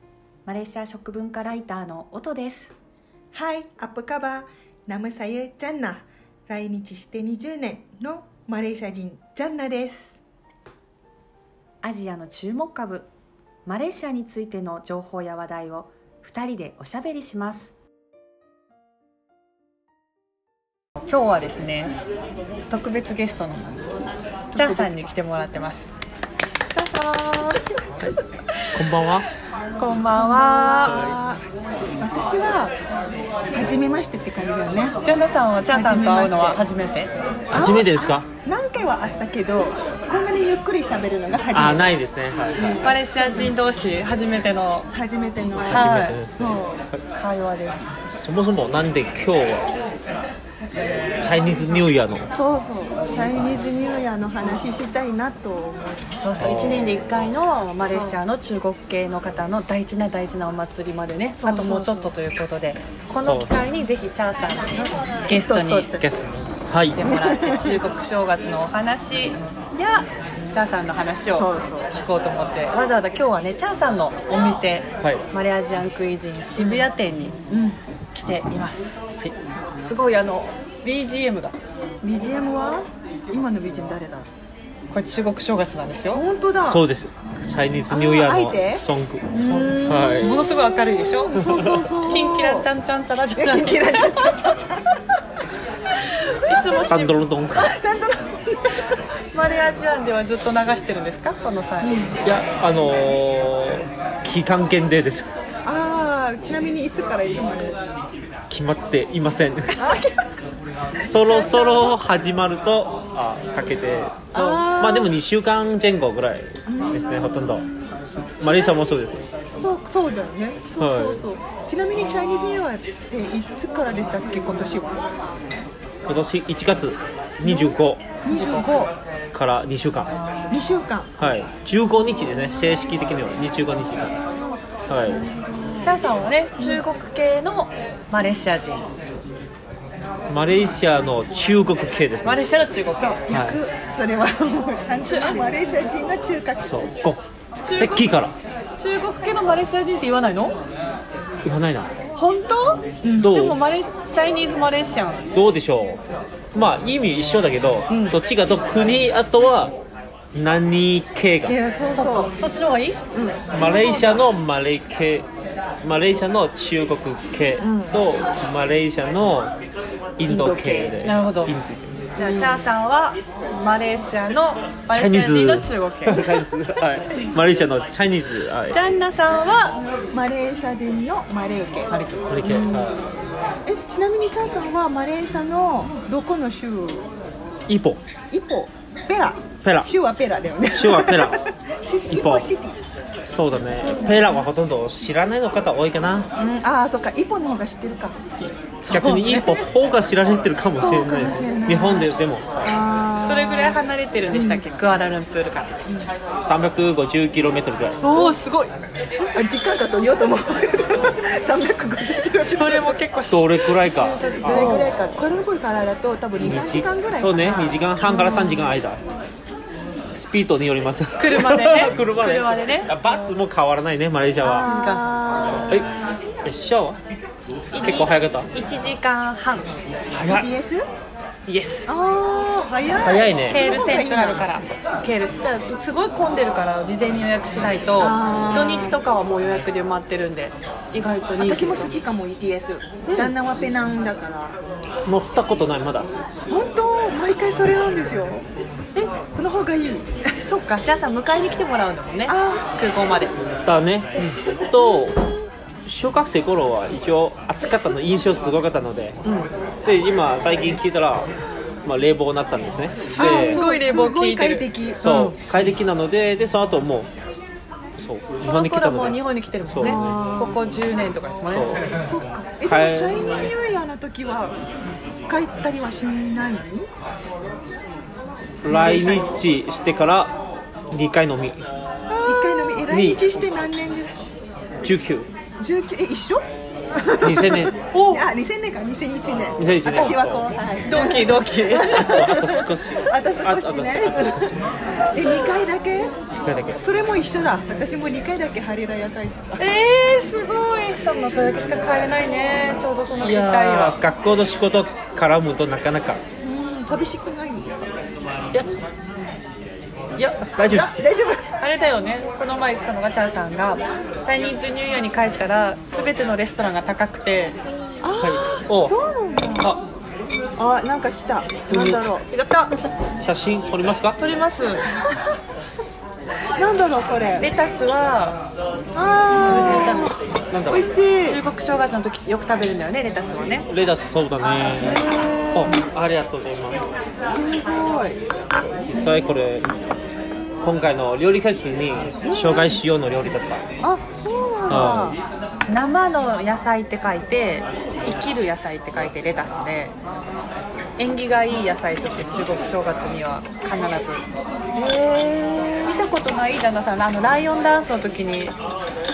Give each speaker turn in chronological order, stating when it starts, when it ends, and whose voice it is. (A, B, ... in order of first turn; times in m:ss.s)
0:00.5-0:02.7 A
0:03.3-0:10.2 B
0:11.8-0:13.1 A
0:13.7-0:17.7 A
0:21.1-0:22.0 A
0:22.7-0:24.0 A
0:24.5-0:25.9 A
0:24.5-0:24.9 B
0:26.7-0:27.6 A
0:28.7-0:29.3 C
0:29.8-0:31.1 A
0:30.2-0:31.4 B
0:32.0-0:32.8 B
0:33.5-0:35.0 B
0:35.0-0:37.1 A
0:35.7-0:36.6 B
0:37.5-0:41.9 B
0:37.5-0:38.3 C
0:41.5-0:42.8 C
0:42.6-0:43.5 B
0:42.8-0:44.9 A
0:44.9-0:46.8 B
0:45.7-0:47.0 C
0:45.7-0:46.2 A
0:47.1-0:48.0 A
0:48.1-0:49.7 C
0:51.2-0:52.3 C
0:52.3-0:55.9 B
0:56.2-1:06.0 A
0:56.4-0:57.1 C
0:57.9-0:58.2 B
1:01.4-1:02.1 B
1:03.2-1:03.5 C
1:05.3-1:06.0 B
1:06.0-1:07.0 C
1:07.0-1:17.4 A
1:07.0-1:07.8 B
1:11.3-1:11.9 B
1:17.5-1:17.8 B
1:18.1-1:19.1 A
1:19.8-1:21.6 A
1:22.0-1:24.3 B
1:24.9-1:26.2 A
1:26.1-1:26.8 B
1:26.6-1:30.5 C
1:27.9-1:30.1 B
1:29.4-1:34.3 A
1:31.2-1:32.7 B
1:31.4-1:31.8 C
1:33.4-1:35.0 B
1:36.0-1:37.2 A
1:36.5-1:37.0 B
1:36.9-1:37.7 C
1:37.6-1:38.9 B
1:39.3-1:42.1 A
1:41.8-1:42.2 B
1:42.2-1:45.4 C
1:45.6-1:47.8 B
1:48.5-1:49.9 C
1:49.8-1:50.3 B
1:51.0-1:57.7 C
1:51.3-1:51.8 B
1:51.4-1:51.8 A
1:54.3-1:55.2 B
1:56.7-1:57.0 B
1:58.4-1:59.2 C
1:58.4-1:58.8 B
1:59.6-2:05.0 B
2:00.8-2:01.2 C
2:06.0-2:08.0 C
2:07.4-2:08.9 B
2:08.3-2:08.7 A
2:09.3-2:10.1 C
2:10.5-2:11.1 B
2:11.2-2:14.2 C
2:14.3-2:16.0 B
2:14.9-2:15.2 C
2:15.8-2:18.8 A
2:20.3-2:22.4 C
2:22.2-2:23.2 A
2:23.0-2:26.8 B
2:23.3-2:23.6 C
2:25.0-2:25.5 A
2:26.6-2:28.3 C
2:27.6-2:28.1 A
2:28.8-2:30.6 A
2:31.4-2:31.9 C
2:32.2-2:35.2 A
2:33.0-2:33.4 B
2:33.2-2:33.6 C
2:35.3-2:36.0 C
2:36.5-2:39.7 C
2:37.9-2:38.2 A
2:40.3-2:41.6 C
2:41.4-2:42.3 B
2:41.9-2:43.0 A
2:43.1-2:43.5 B
2:43.5-2:45.3 C
2:43.6-2:44.2 A
2:45.8-2:49.5 C
2:47.6-2:48.0 B
2:50.2-2:52.0 C
2:50.3-2:51.0 B
2:51.0-2:51.5 A
2:52.2-2:56.6 A
2:52.2-2:52.6 B
2:54.9-2:58.8 C
2:58.7-2:59.8 A
2:59.9-3:02.9 B
3:01.9-3:02.6 A
3:02.3-3:03.1 C
3:03.7-3:07.1 B
3:07.7-3:08.0 C
3:08.3-3:12.8 B
3:09.6-3:09.9 C
3:10.7-3:11.4 C
3:12.1-3:12.5 C
3:13.2-3:16.3 C
3:13.8-3:14.4 B
3:16.4-3:18.2 B
3:18.4-3:22.8 C
3:18.8-3:19.6 A
3:20.7-3:24.6 B
3:23.2-3:25.7 A
3:26.4-3:28.0 C
3:28.0-3:28.7 A
3:28.1-3:28.4 B
3:29.3-3:33.0 B
3:32.4-3:34.9 A
3:33.3-3:35.0 C
3:34.4-3:37.8 B
3:36.4-3:39.0 C
3:37.4-3:38.5 A
3:40.1-3:44.7 C
3:41.2-3:42.9 A
3:44.4-3:46.1 B
3:44.6-3:45.0 A
3:46.4-3:47.0 C
3:47.7-3:49.7 A
3:47.8-3:48.5 C
3:50.1-3:50.5 C
3:50.2-3:50.9 B
3:51.5-3:51.9 A
3:51.9-3:54.5 B
3:53.0-3:53.6 C
3:53.5-4:01.9 A
3:58.0-3:59.0 B
4:01.4-4:04.6 B
4:03.0-4:03.3 A
4:05.1-4:06.1 C
4:06.5-4:08.4 B
4:09.3-4:10.3 B
4:10.4-4:13.3 A
4:12.3-4:12.7 B
4:13.7-4:15.2 C
4:15.9-4:19.2 C
4:19.2-4:19.5 A
4:19.8-4:21.3 C
4:21.8-4:23.6 C
4:23.0-4:25.4 A
4:23.1-4:25.0 B
4:25.0-4:27.1 C
4:28.0-4:30.2 C
4:28.4-4:31.8 A
4:29.8-4:30.6 B
4:31.5-4:31.8 C
4:32.0-4:34.5 B
4:32.6-4:33.3 C
4:35.3-4:36.9 B
4:38.6-4:40.4 C
4:38.7-4:39.4 B
4:40.9-4:41.6 C
4:42.2-4:44.2 B
4:42.9-4:43.3 C
4:44.8-4:45.3 C
4:45.6-4:54.6 B
4:47.2-4:47.7 C
4:47.9-4:48.2 A
4:49.6-4:50.5 C
4:50.8-4:52.2 A
4:51.9-4:54.6 C
4:55.1-4:56.1 B
4:56.4-4:56.8 C
4:56.8-4:59.6 B
4:59.6-5:04.0 A
5:03.2-5:06.2 C
5:06.4-5:07.9 B
5:10.2-5:10.5 A
5:10.5-5:11.0 C
5:10.6-5:11.5 B
5:11.6-5:17.6 A
5:18.0-5:19.7 B
5:18.2-5:18.9 C
5:20.6-5:22.2 B
5:21.7-5:22.7 A
5:23.2-5:24.2 C
5:24.2-5:24.9 A
5:26.6-5:27.5 B
5:27.4-5:28.4 A
5:29.0-5:31.4 B
5:29.4-5:30.1 A
5:30.5-5:30.9 C
5:31.2-5:33.7 A
5:33.7-5:36.9 C
5:34.8-5:35.8 B
5:37.3-5:38.2 B
5:38.9-5:39.7 C
5:38.9-5:39.3 B
5:40.6-5:43.6 C
5:42.2-5:42.8 B
5:43.8-5:45.2 B
5:44.7-5:45.2 C
5:45.7-5:50.0 A
5:51.0-5:54.2 A
5:54.8-5:55.8 B
5:55.8-5:58.6 A